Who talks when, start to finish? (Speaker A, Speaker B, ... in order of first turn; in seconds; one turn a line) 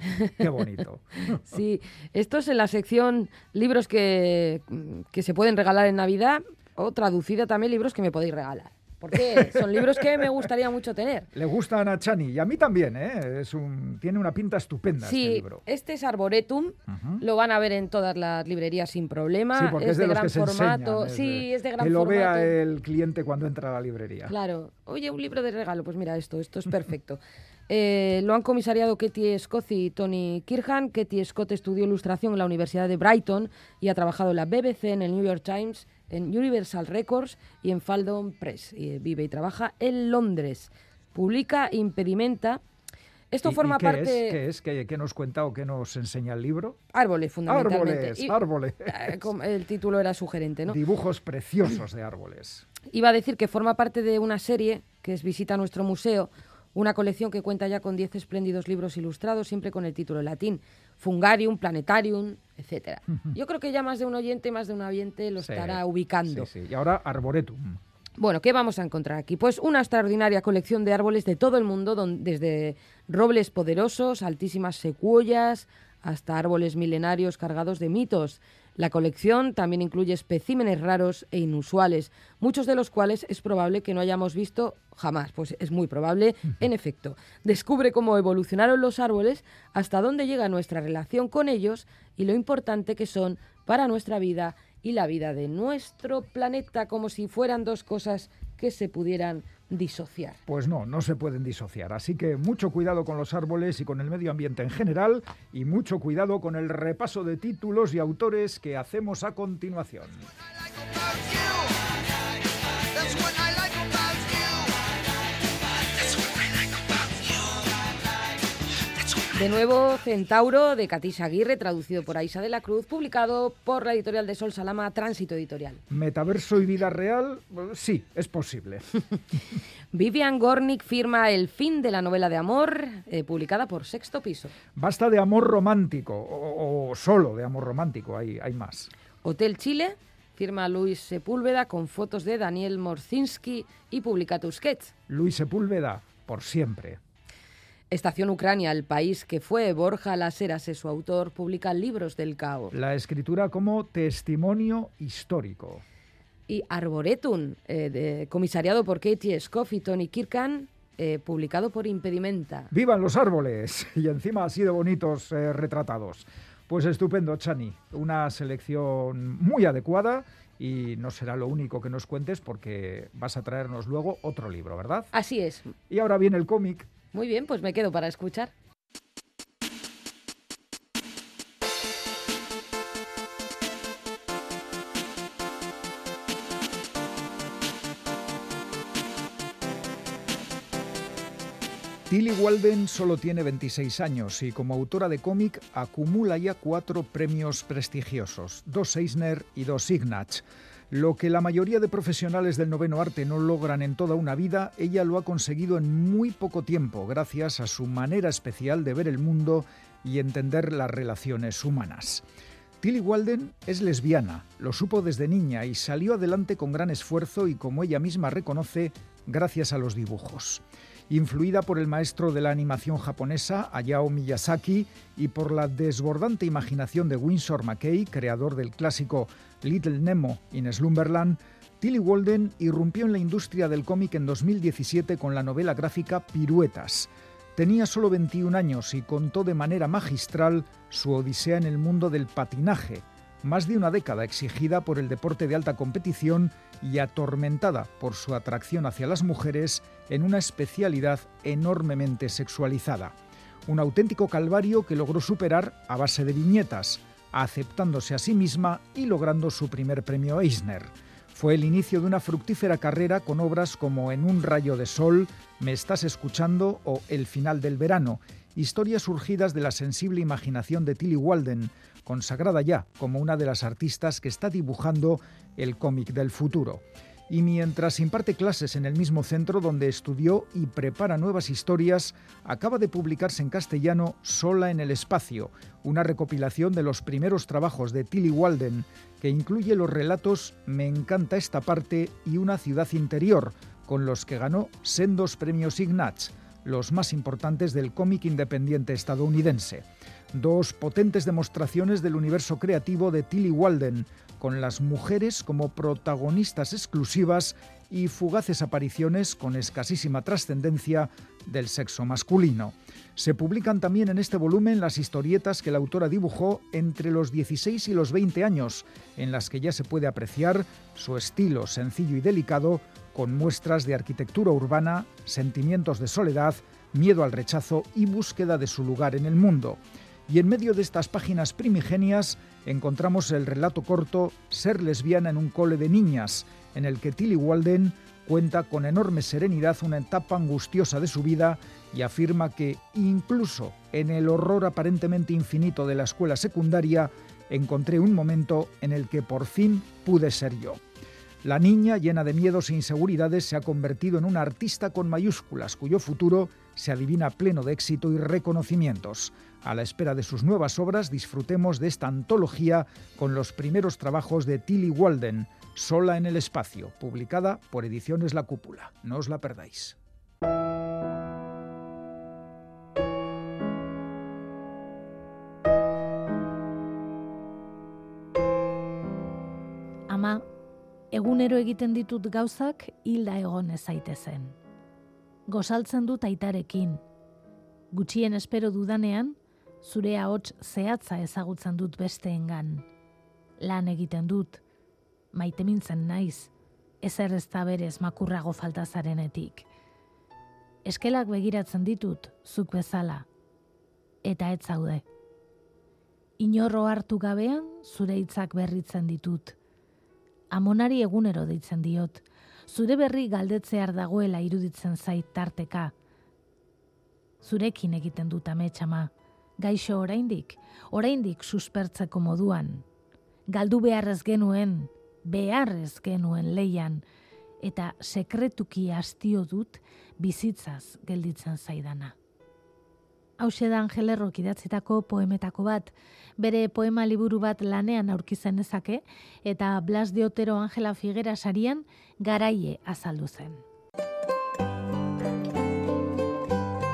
Speaker A: 0.4-1.4
Speaker B: 1.4-11.3
Speaker A: 9.1-10.3
Speaker A: 11.3-15.6
Speaker B: 15.0-22.5
Speaker A: 16.9-17.2
Speaker A: 19.5-24.3
Speaker B: 24.3-42.6
Speaker B: 43.3-44.4
Speaker A: 43.4-46.8
Speaker B: 46.9-50.8
Speaker A: 47.5-49.3
Speaker A: 50.7-52.7
Speaker B: 52.9-66.5
Speaker A: 65.4-67.8
Speaker B: 68.2-100.4
Speaker A: 100.5-110.2
Speaker B: 119.3-125.8
Speaker A: 125.9-128.9
Speaker B: 129.9-134.5
Speaker A: 134.8-138.9
Speaker B: 139.2-144.9
Speaker A: 145.1-147.0
Speaker B: 147.9-152.8
Speaker A: 152.7-155.8
Speaker B: 156.5-162.7
Speaker A: 162.7-175.1
Speaker B: 175.1-175.7
Speaker A: 175.9-176.9
Speaker B: 177.1-178.5
Speaker A: 192.1-212.2
Speaker A: 212.8-253.2
Speaker A: 253.7-350.8
Speaker A: 351.4-370.0
Speaker C: 380.1-380.4
Speaker C: 381.1-384.6
Speaker C: 385.5-387.0
Speaker C: 387.9-392.8
Speaker C: 393.6-394.6
Speaker C: 395.3-396.5
Speaker C: 397.0-399.7
Speaker C: 400.8-403.2
Speaker C: 404.2-405.0
Speaker C: 406.4-409.6
Speaker C: 410.5-415.9
Speaker C: 417.4-422.8
Speaker C: 423.5-427.0
Speaker C: 427.6-432.1
Speaker C: 433.4-443.6